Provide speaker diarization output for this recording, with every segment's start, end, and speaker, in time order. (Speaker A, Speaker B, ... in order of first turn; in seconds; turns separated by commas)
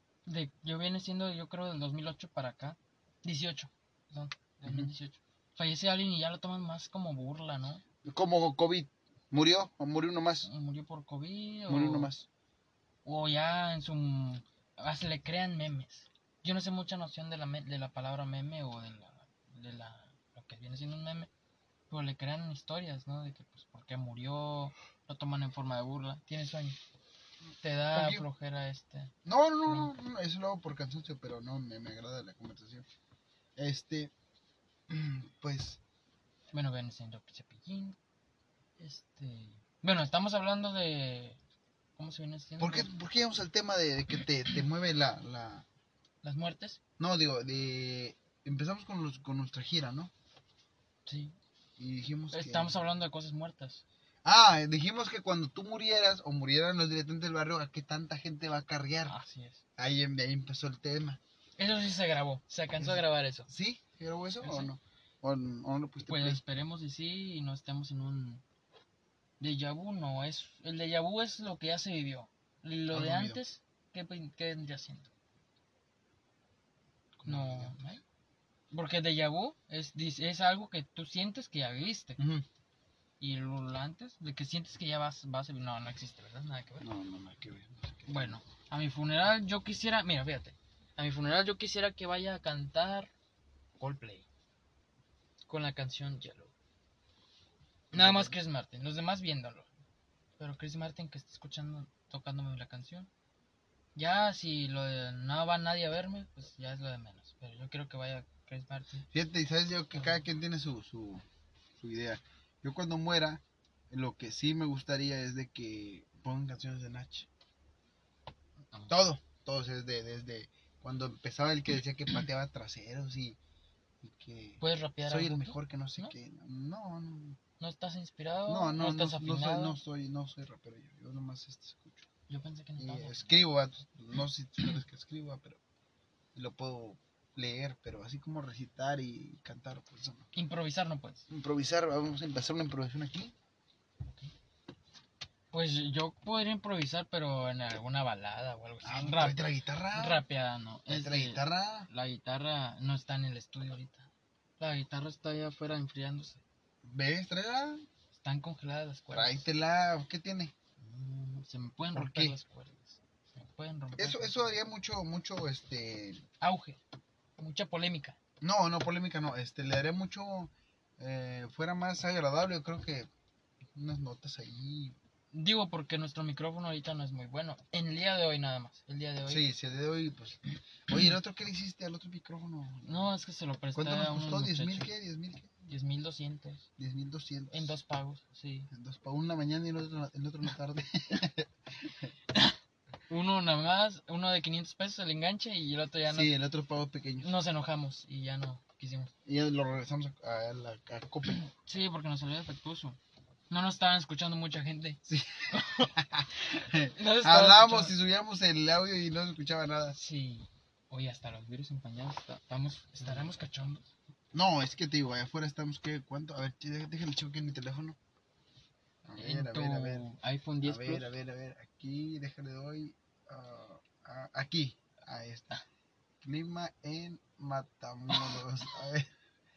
Speaker A: 0.2-7.8, Speaker B: 4.7-4.9, Speaker B: 8.0-10.5, Speaker A: 10.4-12.1, Speaker B: 11.7-12.2, Speaker A: 13.0-21.3, Speaker A: 21.9-26.8, Speaker A: 27.6-29.1, Speaker B: 27.9-28.2, Speaker B: 29.2-32.9, Speaker A: 29.6-29.9, Speaker B: 33.6-34.1, Speaker B: 34.9-35.8, Speaker A: 36.5-38.0, Speaker A: 38.8-41.4, Speaker A: 42.0-42.9, Speaker B: 42.6-45.6, Speaker A: 46.2-46.8, Speaker B: 47.0-50.1, Speaker A: 51.0-51.4, Speaker B: 51.8-52.8, Speaker A: 52.3-53.8, Speaker B: 54.2-59.1, Speaker A: 59.1-59.6, Speaker B: 59.8-61.2, Speaker A: 61.6-63.5, Speaker B: 62.8-66.4, Speaker A: 64.4-64.7, Speaker A: 66.1-68.4, Speaker A: 69.4-75.1, Speaker B: 72.9-73.4, Speaker B: 77.2-78.0, Speaker A: 77.2-78.0, Speaker A: 78.7-82.2, Speaker B: 82.2-82.4, Speaker A: 83.2-86.9, Speaker B: 86.8-88.4, Speaker A: 88.1-93.1, Speaker A: 93.8-94.2, Speaker A: 95.5-96.5, Speaker A: 97.9-99.7, Speaker B: 97.9-98.4, Speaker A: 100.4-103.1, Speaker A: 103.9-109.0, Speaker B: 109.1-111.2, Speaker B: 111.8-117.3, Speaker B: 118.9-123.4, Speaker B: 124.0-127.4, Speaker A: 124.6-126.1, Speaker A: 127.6-129.8, Speaker B: 128.5-132.1, Speaker A: 132.3-133.3, Speaker B: 132.8-135.6, Speaker B: 136.3-140.3, Speaker A: 140.3-141.3, Speaker B: 141.3-143.3, Speaker A: 144.1-144.3, Speaker A: 145.5-149.4, Speaker B: 148.8-150.2, Speaker A: 149.9-156.4, Speaker B: 150.9-151.9, Speaker B: 156.8-157.8, Speaker A: 158.1-159.5, Speaker B: 159.1-160.5, Speaker A: 160.8-164.6, Speaker B: 161.9-162.4, Speaker B: 163.9-166.2, Speaker A: 166.4-166.8, Speaker A: 167.4-168.2, Speaker B: 168.4-173.1, Speaker B: 173.7-174.9, Speaker A: 175.3-179.4, Speaker B: 179.3-183.1, Speaker A: 182.8-184.9, Speaker B: 183.7-185.5, Speaker A: 185.7-186.7, Speaker B: 186.8-187.8, Speaker A: 187.5-188.7, Speaker B: 188.7-192.1, Speaker A: 192.3-192.6, Speaker A: 193.1-196.3, Speaker B: 196.1-197.3, Speaker A: 197.2-199.1, Speaker B: 199.2-201.5, Speaker A: 201.5-203.0, Speaker A: 203.5-205.9, Speaker B: 205.1-210.0, Speaker A: 206.8-207.9, Speaker A: 209.9-213.9, Speaker B: 213.0-213.3, Speaker B: 214.3-218.0, Speaker B: 219.0-220.1, Speaker A: 219.1-221.1, Speaker B: 220.6-225.6, Speaker B: 226.2-229.1